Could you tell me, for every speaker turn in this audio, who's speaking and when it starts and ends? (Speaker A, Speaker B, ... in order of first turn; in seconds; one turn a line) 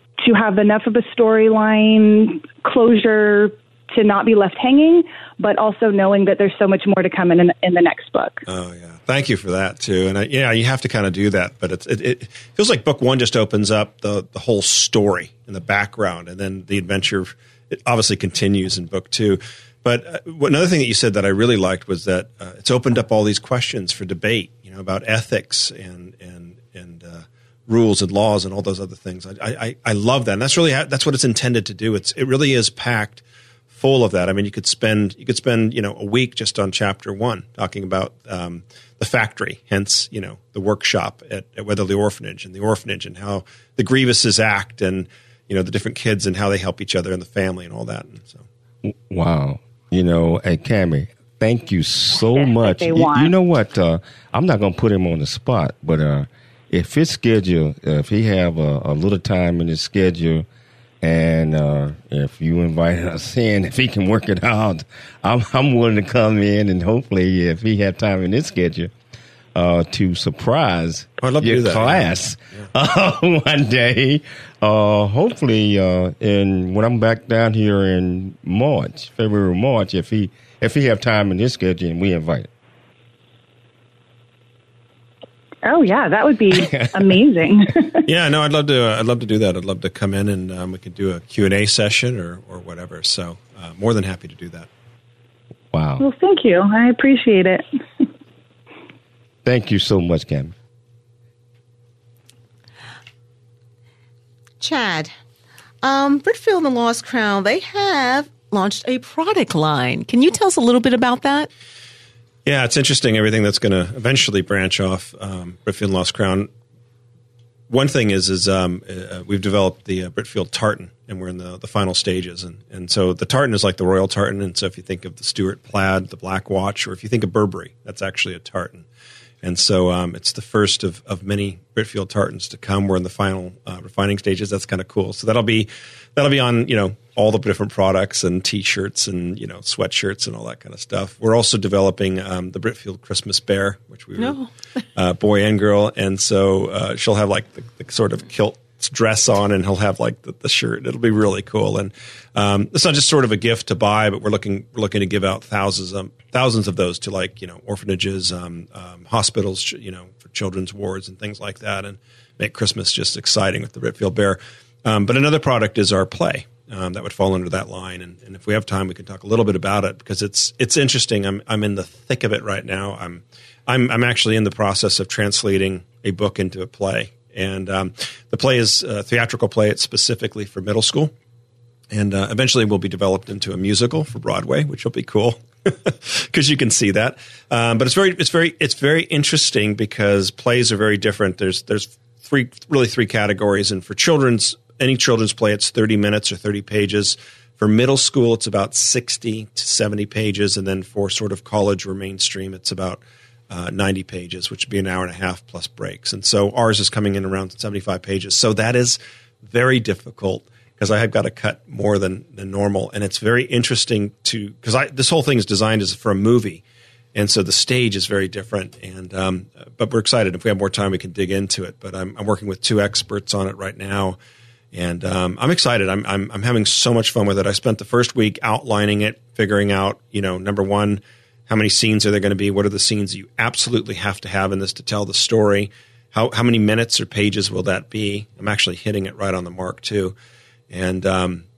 Speaker A: 0.2-8.4
Speaker B: 8.5-48.4
Speaker C: 48.8-60.5
Speaker A: 52.1-53.3
Speaker C: 61.0-68.9
Speaker C: 69.5-82.5
Speaker B: 71.2-72.1
Speaker A: 85.6-88.0
Speaker C: 86.6-86.9
Speaker B: 88.1-94.7
Speaker C: 95.7-96.0
Speaker A: 96.0-97.6
Speaker C: 99.5-100.5
Speaker D: 104.6-105.1
Speaker D: 105.8-111.5
Speaker B: 112.5-116.5
Speaker B: 117.7-128.8
Speaker B: 129.4-144.4
Speaker D: 144.2-144.5
Speaker B: 144.9-181.1
Speaker B: 181.9-216.6
Speaker B: 217.2-224.2
Speaker B: 224.7-240.2
Speaker B: 240.7-241.4